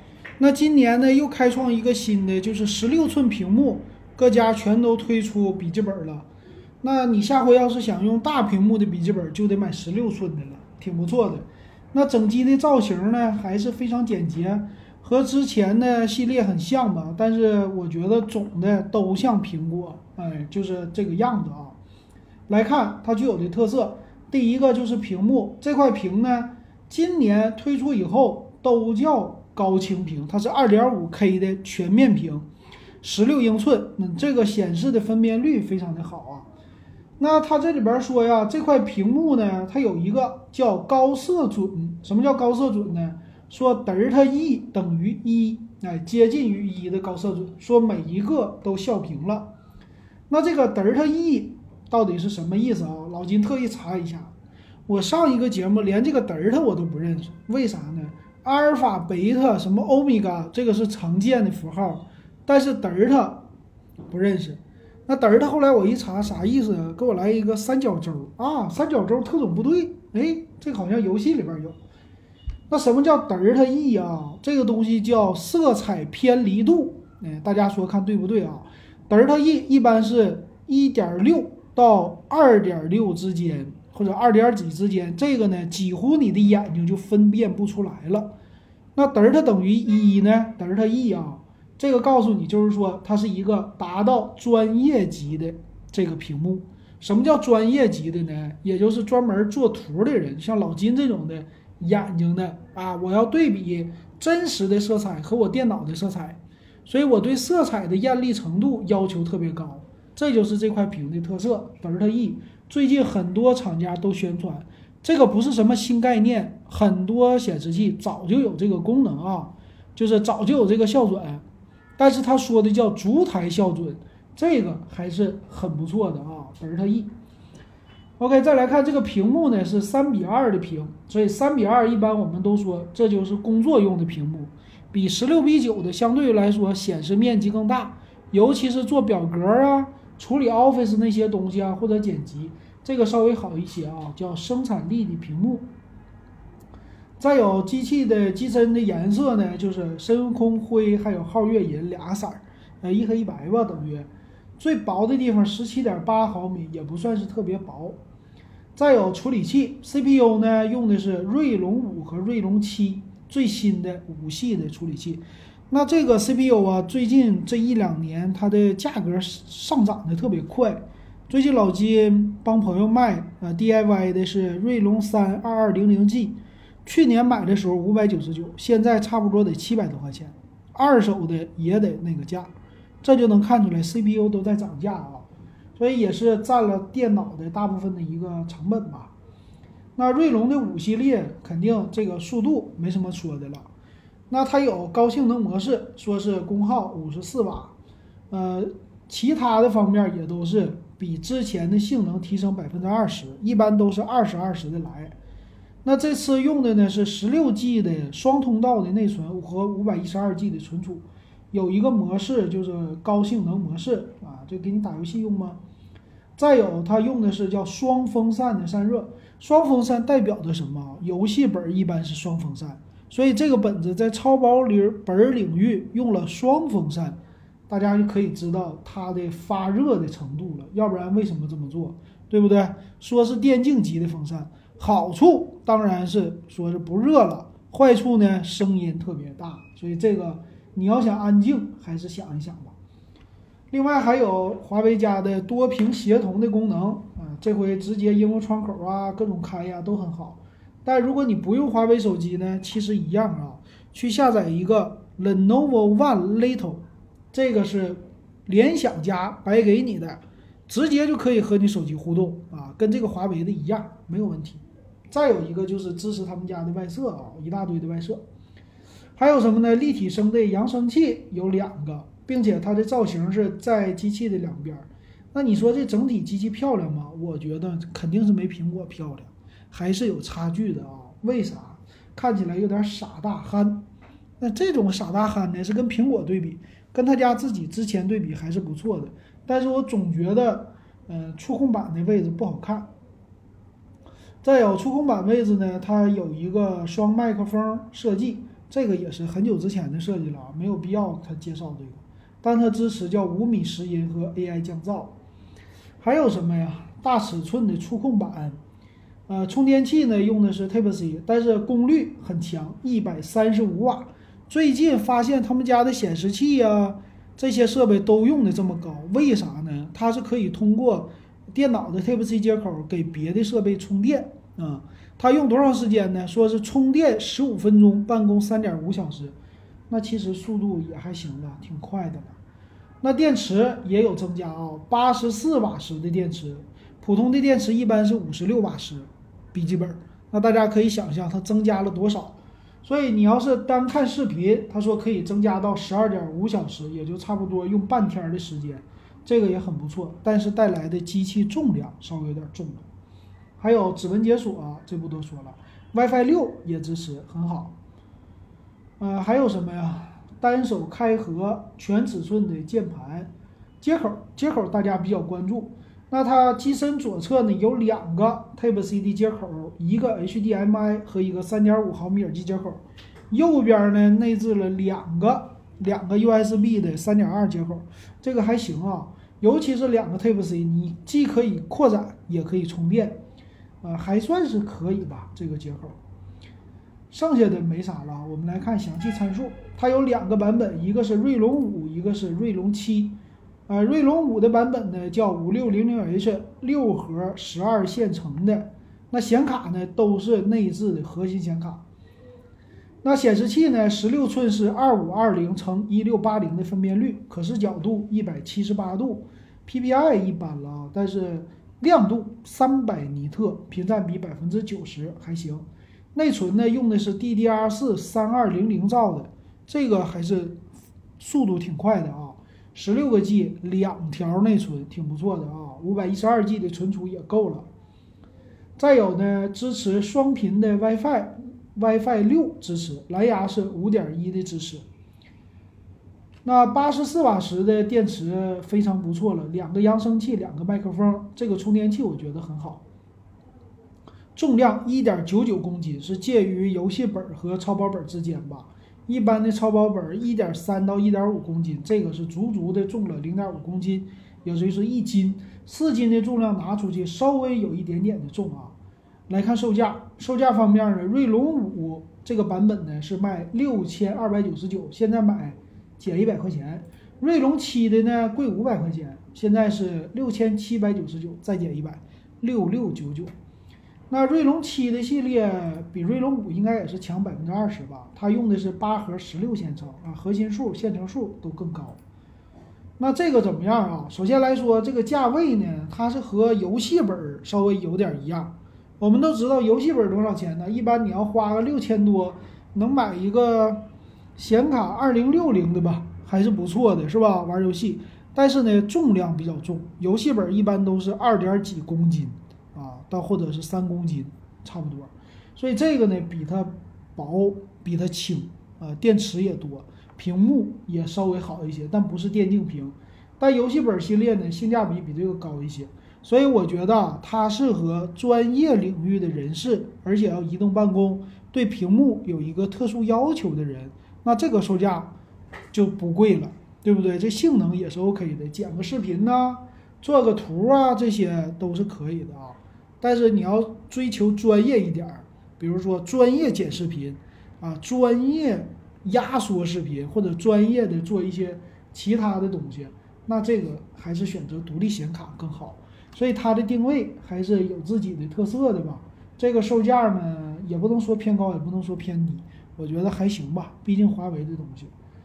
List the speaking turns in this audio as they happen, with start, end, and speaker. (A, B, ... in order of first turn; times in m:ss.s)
0:00.4-0:06.3 A
0:06.8-0:21.8 A
0:22.5-0:32.5 A
0:33.0-0:36.5 A
0:37.2-0:49.5 A
0:50.3-0:54.3 A
0:54.9-1:03.4 A
1:04.1-1:11.8 A
1:12.7-1:28.3 A
1:28.9-2:01.4 A
2:02.0-2:07.1 A
2:08.2-2:25.7 A
2:27.2-2:34.1 A
2:34.6-2:38.0 A
2:38.8-3:09.1 A
3:10.0-3:13.7 A
3:14.3-3:17.7 A
3:18.3-3:25.1 A
3:25.8-3:35.6 A
3:36.4-3:47.2 A
3:47.7-4:02.7 A
4:03.7-4:28.2 A
4:29.2-4:43.8 A
4:44.4-4:52.9 A
4:54.4-5:05.1 A
5:06.0-5:08.6 A
5:09.3-5:29.3 A
5:29.9-5:32.4 A
5:33.0-5:52.9 A
5:53.6-5:57.7 A
5:59.0-6:23.2 A
6:23.8-6:26.0 A
6:27.1-6:33.2 A
6:33.7-6:41.8 A
6:43.0-7:00.6 A
7:01.2-7:07.6 A
7:08.8-7:14.8 A
7:16.4-7:22.8 A
7:24.4-7:38.7 A
7:39.3-7:53.3 A
7:54.1-8:02.0 A
8:03.0-8:13.8 A
8:14.4-8:45.1 A
8:45.7-9:14.9 A